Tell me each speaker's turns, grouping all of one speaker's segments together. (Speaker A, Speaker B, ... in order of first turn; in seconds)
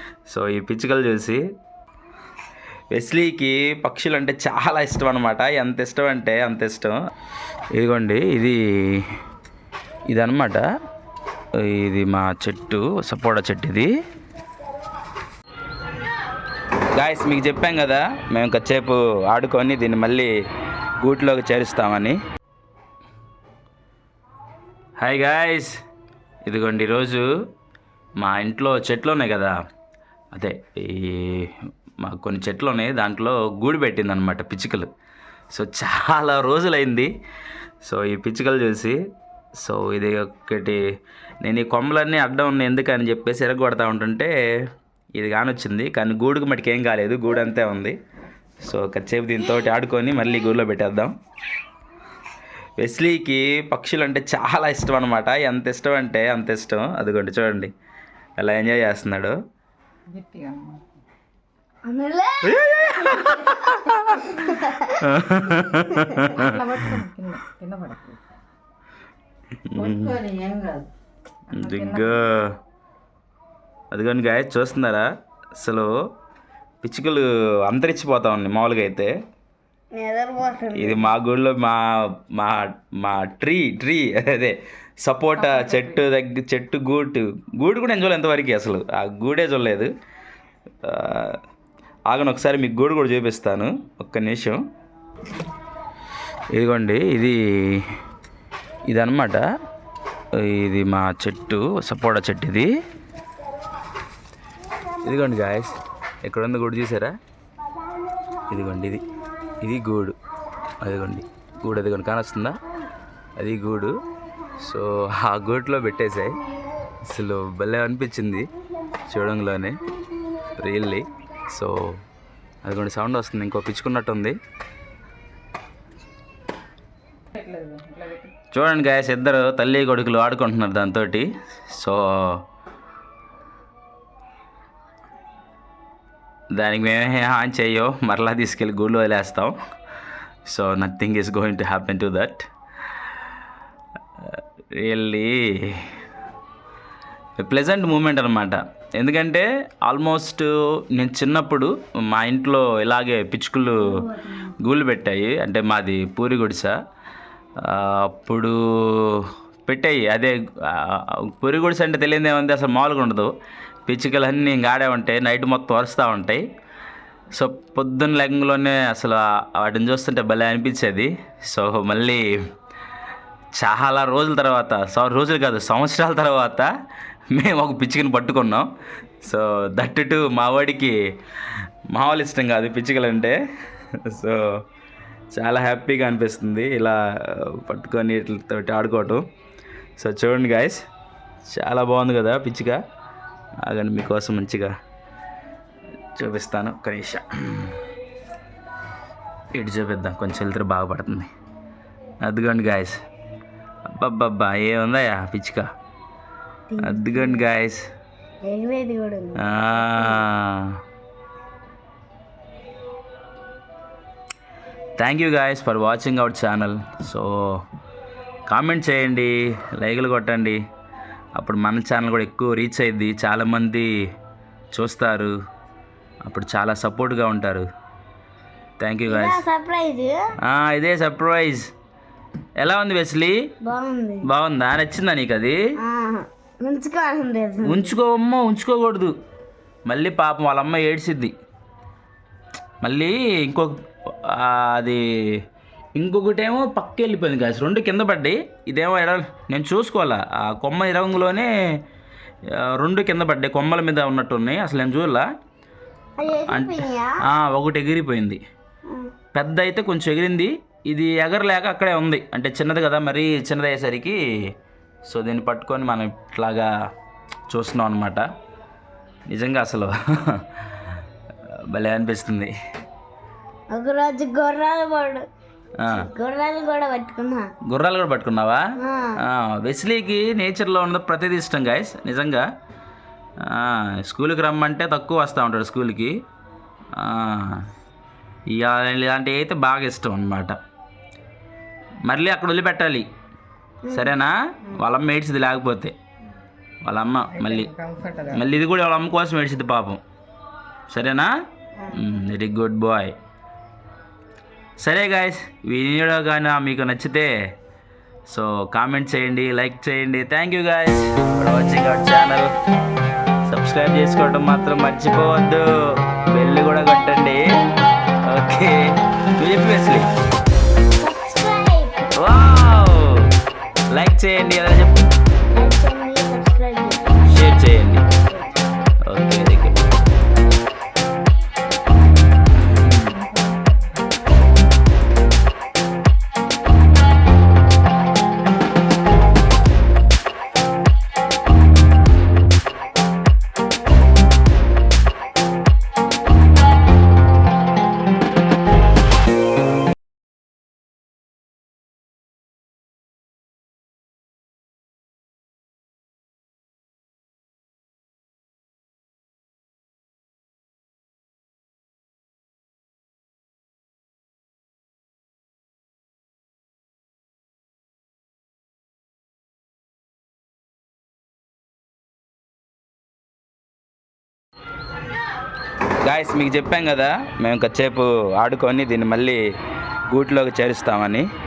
Speaker A: 0.3-1.4, 2.9-7.0, 7.8-9.1, 10.1-10.7, 11.6-13.9, 16.9-20.3, 21.0-22.2, 25.0-25.8, 26.4-27.3, 28.2-29.5, 30.3-34.9, 35.5-37.1, 37.8-39.0, 39.6-40.8, 41.4-44.3, 45.1-48.0, 48.6-51.1, 52.8-57.7, 58.4-59.4, 62.5-67.0, 69.6-70.2, 71.5-72.5, 73.9-76.0, 76.8-79.1, 80.8-89.9, 90.8-91.4, 92.1-94.6, 96.5-97.9, 98.9-99.5, 100.3-102.7, 105.0-107.2, 108.5-109.0, 109.6-110.2, 110.8-112.6, 113.4-114.0, 114.6-116.4, 117.0-118.5, 119.1-119.8, 120.5-122.0, 122.7-124.4, 128.5-132.4, 136.5-139.6, 140.5-142.5, 144.2-145.9, 147.4-156.7, 157.6-163.3, 163.9-166.4, 167.3-172.2, 173.6-176.7, 177.3-178.7, 179.2-181.0, 181.9-183.4, 184.0-184.4, 185.3-189.2, 190.0-190.8, 191.5-192.8, 193.6-194.7, 196.2-197.8, 199.5-201.3, 202.2-203.0, 204.0-205.7, 206.8-207.8, 209.4-210.8, 215.0-217.6, 218.5-220.6, 221.4-223.9, 224.7-225.3, 226.2-227.7, 228.8-229.4, 230.4-231.7, 232.6-233.4, 234.2-235.6, 237.6-239.2, 239.9-241.3, 242.8-245.4, 246.0-251.5, 252.6-255.3, 256.5-258.4, 259.3-264.2, 265.1-266.7, 267.5-268.3, 269.3-270.6, 271.7-272.5, 275.8-276.1, 277.7-278.6, 279.2-282.5, 283.4-286.1, 287.0-287.6, 288.5-290.6, 292.1-293.1, 293.9-295.9, 296.9-297.7, 298.3-300.0, 300.9-301.3, 301.9-303.1, 304.8-307.3, 308.3-312.5, 313.5-317.4, 318.2-318.9, 319.4-320.1, 322.2-323.3, 323.9-325.1, 327.3-328.1, 329.1-329.8, 332.7-333.1, 376.0-379.4, 380.1-381.3
Speaker B: 60.1-60.9, 66.3-68.2, 70.4-70.8, 71.5-72.3, 85.4-86.0, 127.4-128.3, 297.3-298.4, 333.1-334.0
Speaker C: 61.9-64.0, 64.5-64.9, 79.9-81.1, 206.7-207.5, 208.4-210.2, 229.1-230.2, 233.6-234.2, 235.8-237.9, 256.2-257.2, 258.9-259.1, 273.7-275.3, 275.9-277.5, 278.8-279.2, 293.9-294.8, 301.8-302.0, 321.0-322.1, 325.5-327.1, 328.3-328.6